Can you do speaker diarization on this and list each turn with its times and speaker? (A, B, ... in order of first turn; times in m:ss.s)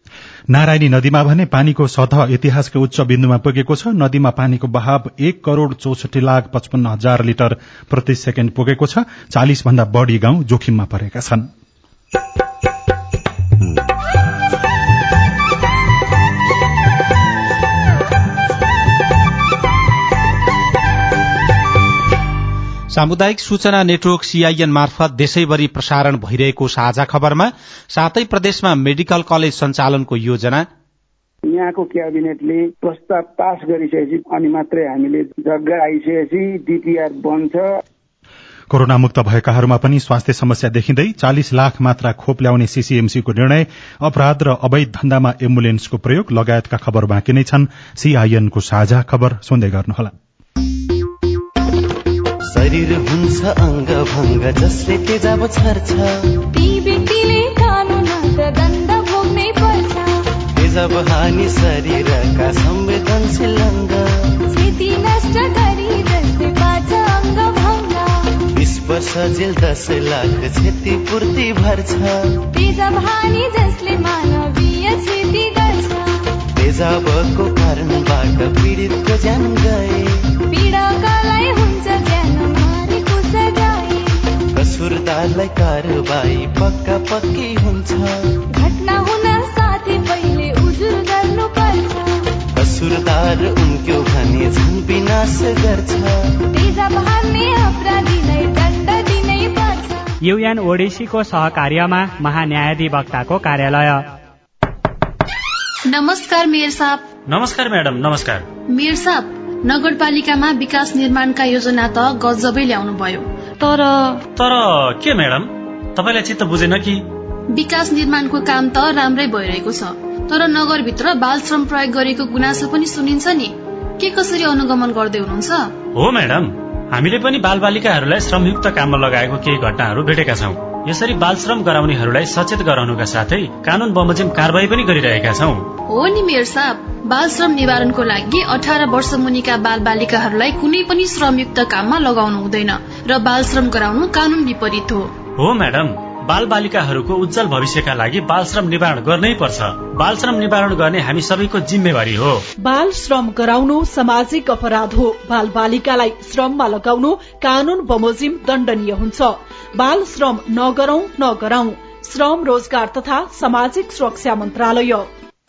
0:00.5-0:11.5 A
0:22.9-0:30.6 B
0:31.5-0:37.6 C
0:38.7-0:50.1 A
0:52.5-0:56.1 D
0:56.5-1:00.2 E
1:00.5-1:04.1 D
1:04.5-1:08.3 E
1:08.5-1:12.2 D
1:12.5-1:16.1 E
1:16.5-1:20.2 D
1:20.5-1:24.3 E
1:24.5-1:28.1 D
1:28.5-1:32.3 E
1:32.5-1:36.2 D
1:36.5-1:40.1 E
1:40.2-1:44.0 F
1:45.9-1:47.1 G
1:47.3-1:48.4 H
1:48.7-1:53.3 G
1:54.3-1:57.0 H
1:57.5-2:05.7 G
2:05.9-2:15.7 H
2:15.9-2:25.1 G
2:25.4-2:32.4 H
2:32.6-2:45.1 I